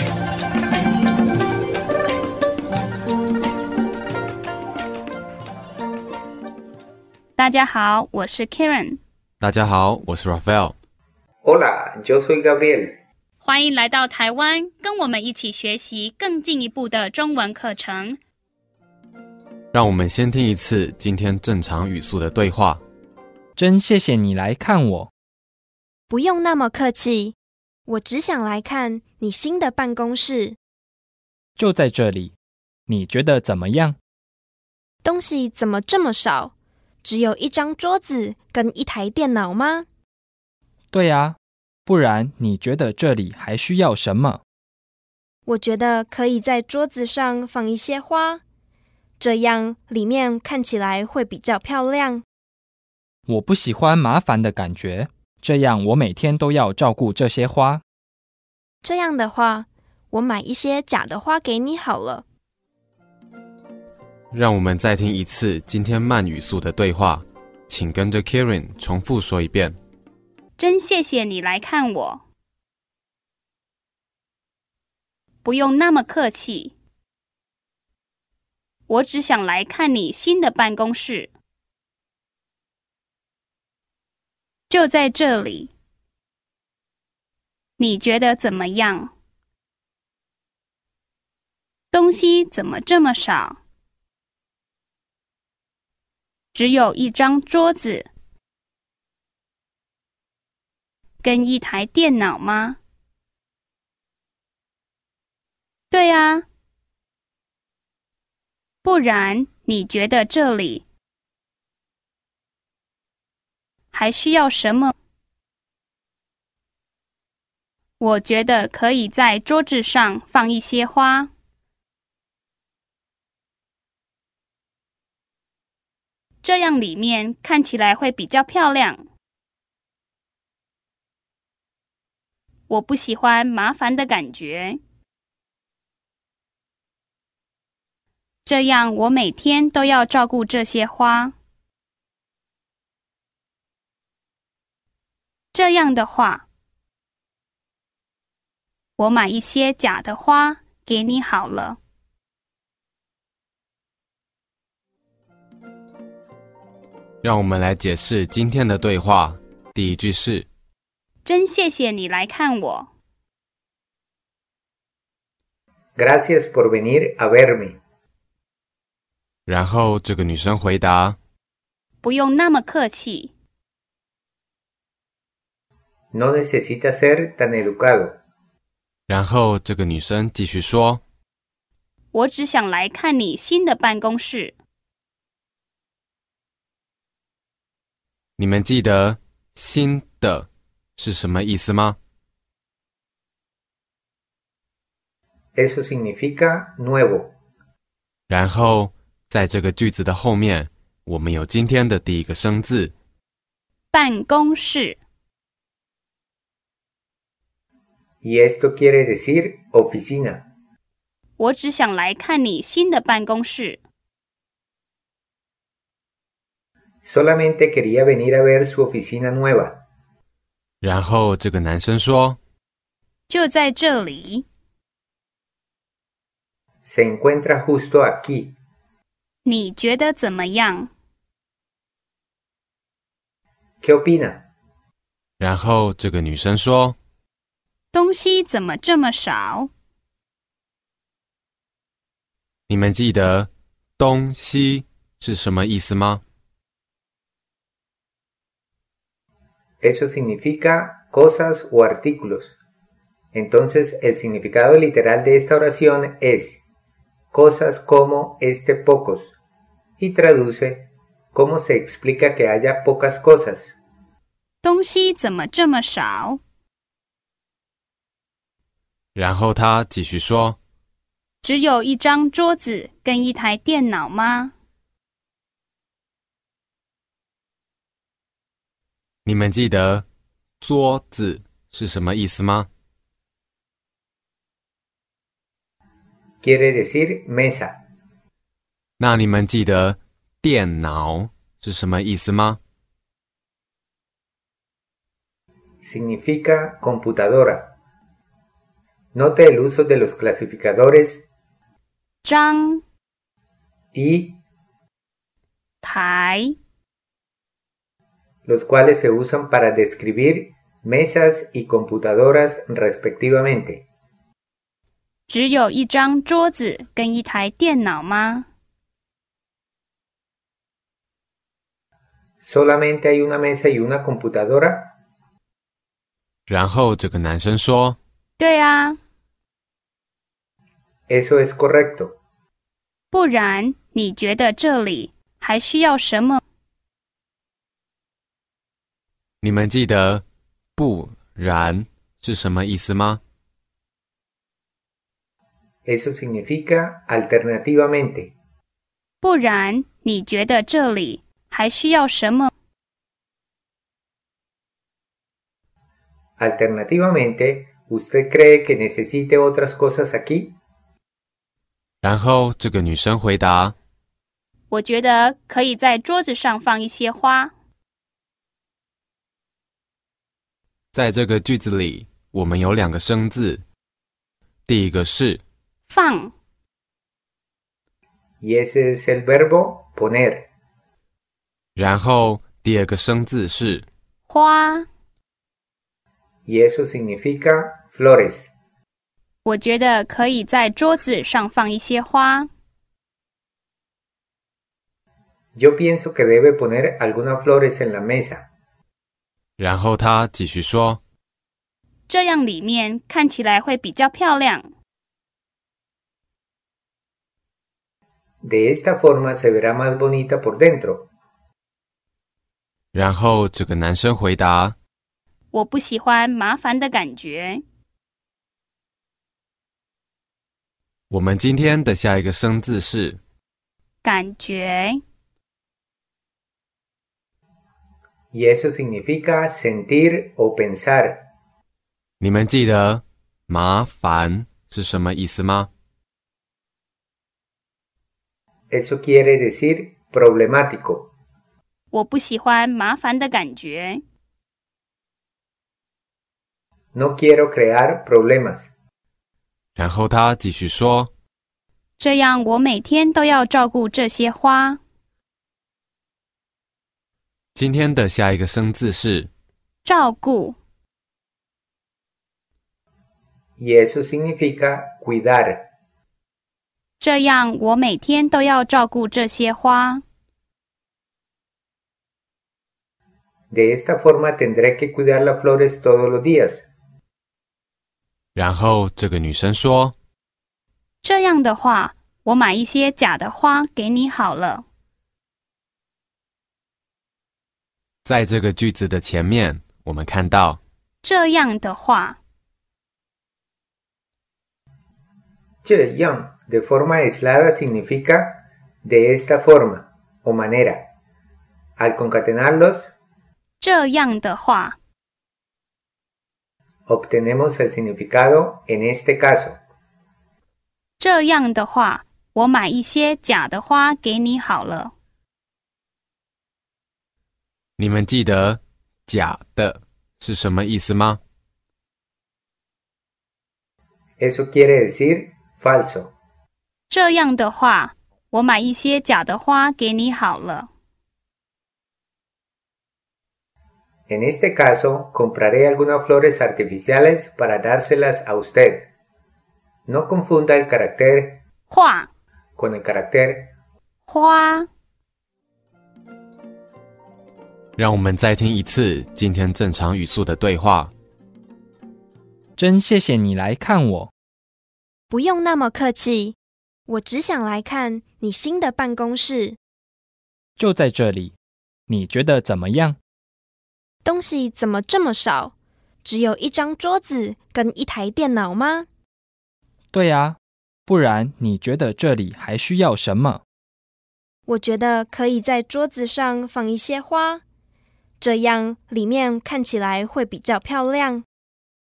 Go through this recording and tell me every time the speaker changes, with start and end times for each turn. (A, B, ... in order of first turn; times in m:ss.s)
0:07.4-0:09.0 A
0:09.4-0:10.7 B
0:11.4-0:13.0 C
0:13.4-0:18.2 A
0:19.7-0:22.8 B
0:23.6-0:25.1 D
0:26.1-0:27.4 E
0:27.9-0:30.6 E
0:31.6-0:32.3 D
0:32.9-0:34.0 D
0:35.0-0:36.5 E
0:37.0-0:39.9 E
0:40.9-0:44.4 D
0:45.5-0:48.4 E
0:49.2-0:52.2 E
0:53.3-0:57.8 D
0:58.8-1:02.2 E
1:04.3-1:09.8 B
1:10.6-1:12.2 A
1:15.4-1:16.8 A
1:18.9-1:21.3 A
1:24.7-1:25.7 A
1:27.8-1:29.1 A
1:31.9-1:33.6 A
1:36.5-1:38.1 A
1:41.2-1:42.8 A
1:45.9-1:46.5 A
1:48.8-1:50.9 A
1:53.9-1:54.9 A
1:58.0-2:01.3 A
2:06.4-2:09.0 A
2:12.7-2:14.8 A
2:18.4-2:21.4 A
2:25.5-2:26.5 A
2:29.0-2:31.8 A
2:37.2-2:40.5 B
2:41.2-2:42.9 A
2:46.0-2:47.8 C
2:49.5-2:51.2 B
2:52.0-2:53.3 A
2:56.1-2:58.2 C
2:59.1-3:01.0 B
3:02.1-3:04.6 A
3:08.4-3:12.0 B
3:15.6-3:17.3 C
3:18.3-3:22.9 B
3:23.9-3:25.0 A
3:28.2-3:30.4 C
3:31.4-3:33.8 A
3:37.0-3:39.8 C
3:40.8-3:42.4 B
3:43.3-3:44.5 A
3:46.9-3:48.6 C
3:49.4-3:50.9 A
3:53.8-3:54.4 C
3:55.4-3:57.0 B
3:57.9-3:59.7 A
4:02.7-4:06.2 B
4:09.8-4:12.6 C
4:13.3-4:16.6 C
4:17.3-4:19.3 C
4:20.0-4:23.7 C
4:24.6-4:26.4 A
4:29.2-4:30.6 B
4:31.4-4:34.5 A
4:39.2-4:40.1 B
4:40.6-4:42.7 B
4:46.4-4:47.8 C
4:49.0-4:52.6 B
4:55.8-4:57.8 C
4:59.1-5:01.2 C
5:02.2-5:02.8 A
5:03.9-5:04.4 C
5:05.8-5:06.6 A
5:08.5-5:13.8 C
5:15.3-5:18.5 A
5:22.4-5:25.0 C
5:26.5-5:28.0 B
5:28.4-5:29.0 A
5:31.1-5:32.2 C
5:33.1-5:36.4 A
5:39.4-5:40.2 B
5:40.8-5:43.2 B
5:45.8-5:48.3 C
5:49.2-5:52.5 A
5:56.4-6:00.6 C
6:02.0-6:03.8 B
6:04.7-6:07.5 A
6:10.9-6:13.6 B
6:14.7-6:15.4 B
6:15.9-6:16.3 A
6:18.4-6:20.5 C
6:21.8-6:23.9 B
6:24.3-6:24.9 A
6:26.5-6:28.5 C
6:29.4-6:32.5 A
6:35.6-6:38.5 C
6:39.6-6:41.0 B
6:42.1-6:44.7 A
6:48.4-6:51.1 C
6:52.9-6:54.8 B
6:55.5-6:57.6 A
7:01.1-7:03.2 B
7:04.0-7:05.0 A
7:08.3-7:11.3 C
7:12.2-7:15.7 B
7:18.7-7:21.1 C
7:21.9-7:24.0 A
7:27.0-7:28.7 C
7:29.8-7:31.1 B
7:32.0-7:34.8 A
7:37.6-7:39.3 B
7:39.8-7:40.6 A
7:43.6-7:45.7 C
7:47.0-7:50.0 A
7:53.5-7:56.6 C
7:58.4-8:00.0 B
8:01.0-8:04.6 A
8:08.0-8:10.6 B
8:11.0-8:12.2 A
8:15.6-8:20.9 C
8:21.8-8:22.9 C
8:23.6-8:24.8 A
8:26.9-8:29.6 C
8:31.0-8:34.9 A
8:37.8-8:41.2 B
8:44.2-8:46.1 C
8:46.9-8:50.7 A
8:54.1-8:58.9 C
8:59.9-9:01.4 C
9:01.7-9:02.1 A
9:02.6-9:03.5 C
9:04.1-9:04.7 A
9:07.8-9:10.9 B
9:12.6-9:14.1 D
9:15.1-9:16.4 E
9:16.9-9:19.6 E
9:20.6-9:21.4 D
9:21.9-9:23.0 D
9:24.0-9:25.5 E
9:26.0-9:28.9 E
9:29.9-9:33.4 D
9:34.5-9:37.4 E
9:38.2-9:41.2 E